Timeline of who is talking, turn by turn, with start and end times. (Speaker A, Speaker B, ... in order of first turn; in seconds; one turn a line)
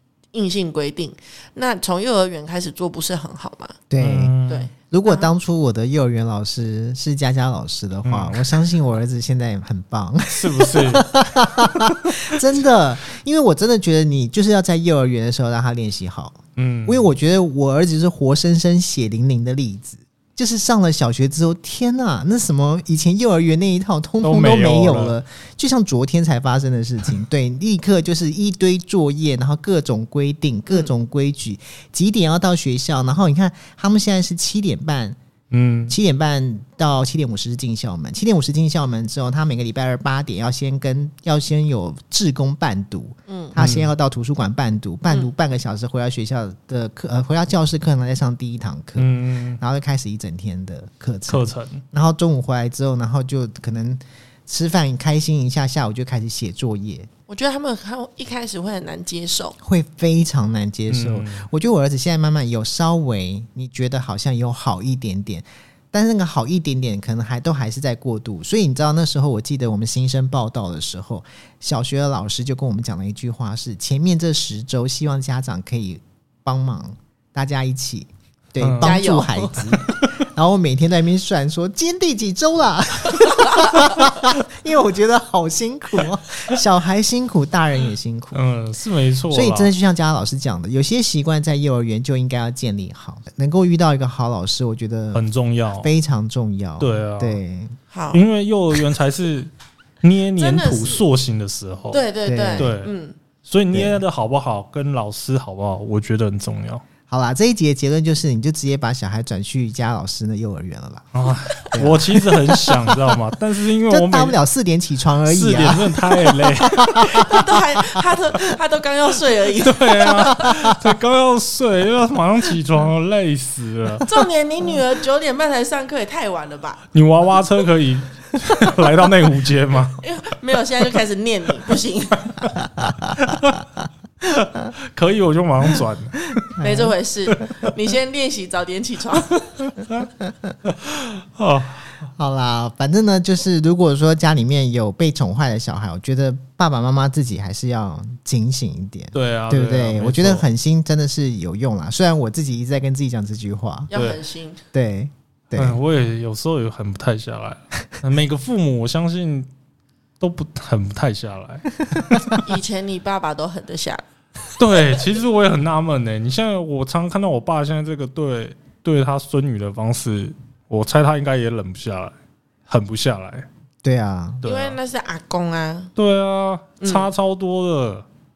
Speaker A: 0.3-3.8
Speaker B: 3.9-35.2
Speaker C: 4.0-4.7
Speaker A: 4.5-5.3
Speaker C: 8.1-8.5
Speaker C: 10.3-12.3
Speaker C: 16.6-17.1
Speaker C: 24.2-25.1
Speaker C: 35.5-36.0
Speaker B: 35.9-57.1
Speaker A: 43.3-43.5
Speaker C: 43.6-43.9
Speaker C: 49.0-49.6
Speaker C: 51.3-51.8
Speaker A: 57.3-59.6
Speaker B: 59.6-88.4
Speaker C: 60.9-61.5
Speaker C: 78.6-79.0
Speaker A: 78.8-79.7
Speaker C: 88.3-89.7
Speaker B: 89.3-95.3
Speaker C: 95.1-95.9
Speaker B: 95.8-97.8
Speaker C: 96.8-97.4
Speaker A: 97.9-98.2
Speaker C: 98.1-102.0
Speaker A: 100.4-101.0
Speaker A: 101.9-103.2
Speaker B: 102.2-102.7
Speaker C: 102.6-102.9
Speaker C: 103.5-106.8
Speaker B: 103.7-104.0
Speaker B: 107.1-111.1
Speaker C: 111.1-114.4
Speaker B: 111.7-113.0
Speaker B: 113.9-117.5
Speaker C: 115.3-117.2
Speaker A: 117.0-120.5
Speaker C: 119.6-124.0
Speaker A: 124.0-126.8
Speaker C: 126.9-130.0
Speaker A: 130.0-132.3
Speaker B: 132.6-133.1
Speaker C: 133.2-133.6
Speaker C: 134.3-136.4
Speaker B: 136.6-136.9
Speaker A: 136.6-139.4
Speaker C: 139.6-140.1
Speaker C: 140.7-141.9
Speaker B: 142.2-153.9
Speaker C: 149.1-150.5
Speaker A: 153.9-154.6
Speaker C: 153.9-154.2
Speaker B: 154.7-155.8
Speaker C: 155.6-159.5
Speaker C: 160.2-162.4
Speaker A: 162.4-164.1
Speaker C: 164.6-172.2
Speaker C: 172.7-173.5
Speaker B: 173.8-174.4
Speaker C: 174.4-174.8
Speaker A: 174.4-175.9
Speaker C: 176.0-178.1
Speaker A: 176.8-177.1